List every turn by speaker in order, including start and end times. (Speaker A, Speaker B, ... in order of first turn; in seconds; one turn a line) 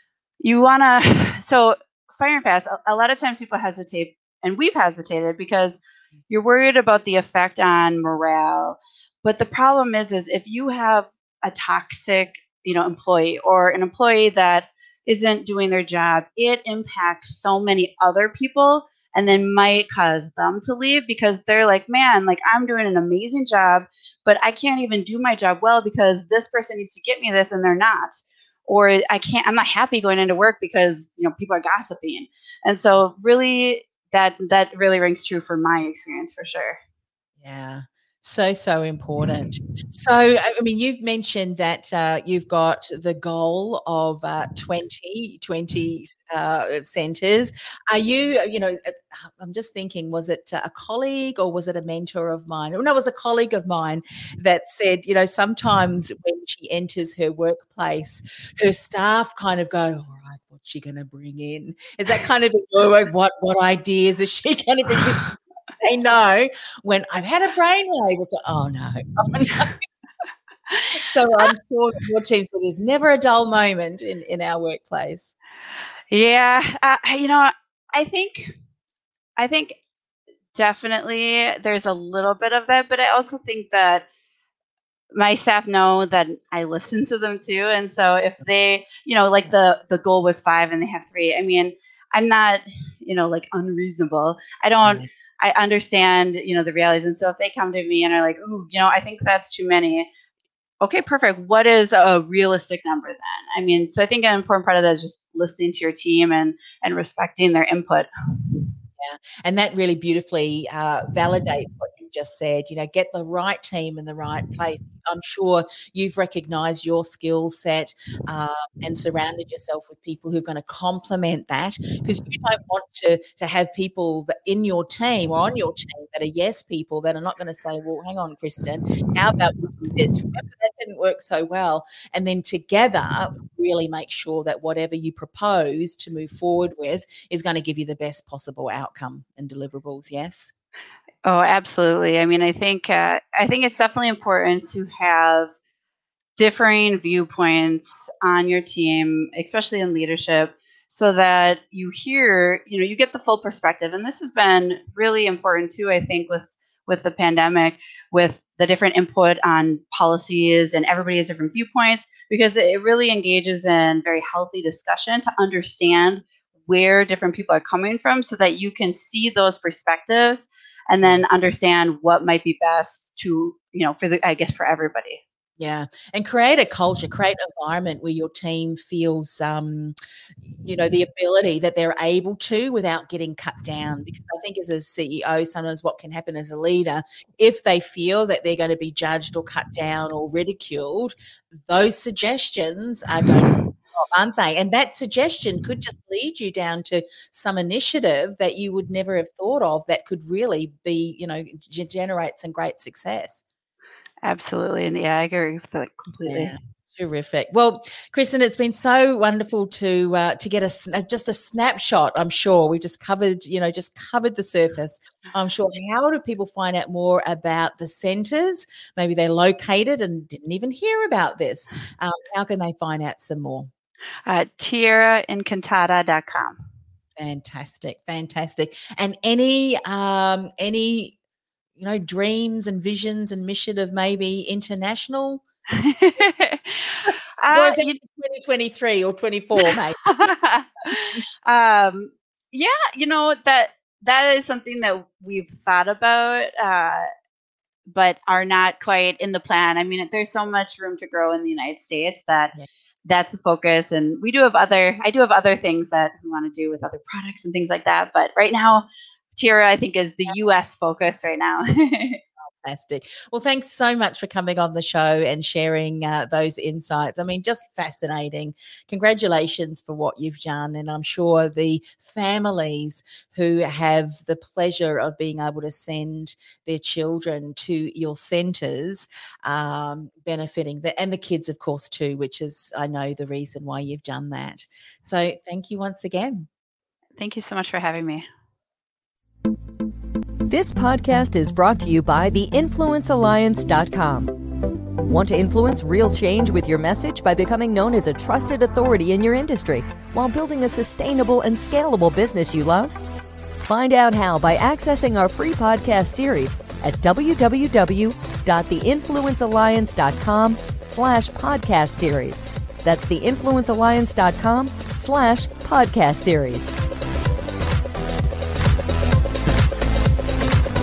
Speaker A: 0.4-36.8
Speaker B: 37.4-69.7
Speaker B: 70.9-75.3
Speaker A: 76.1-78.5
Speaker A: 79.4-79.8
Speaker A: 80.5-84.0
Speaker A: 85.1-100.1
Speaker A: 100.8-108.1
Speaker B: 109.0-140.5
Speaker A: 141.2-145.5
Speaker A: 146.4-175.2
Speaker B: 175.6-179.9
Speaker B: 180.6-203.4
Speaker A: 204.2-206.5
Speaker B: 206.2-223.7
Speaker A: 224.2-226.6
Speaker B: 227.2-231.2
Speaker B: 231.8-235.4
Speaker A: 235.7-238.0
Speaker B: 237.5-240.1
Speaker A: 240.1-247.1
Speaker A: 247.9-252.5
Speaker A: 253.1-262.2
Speaker B: 262.6-286.5
Speaker A: 287.2-288.2
Speaker C: 290.5-294.4
Speaker C: 295.0-302.9
Speaker C: 303.6-316.7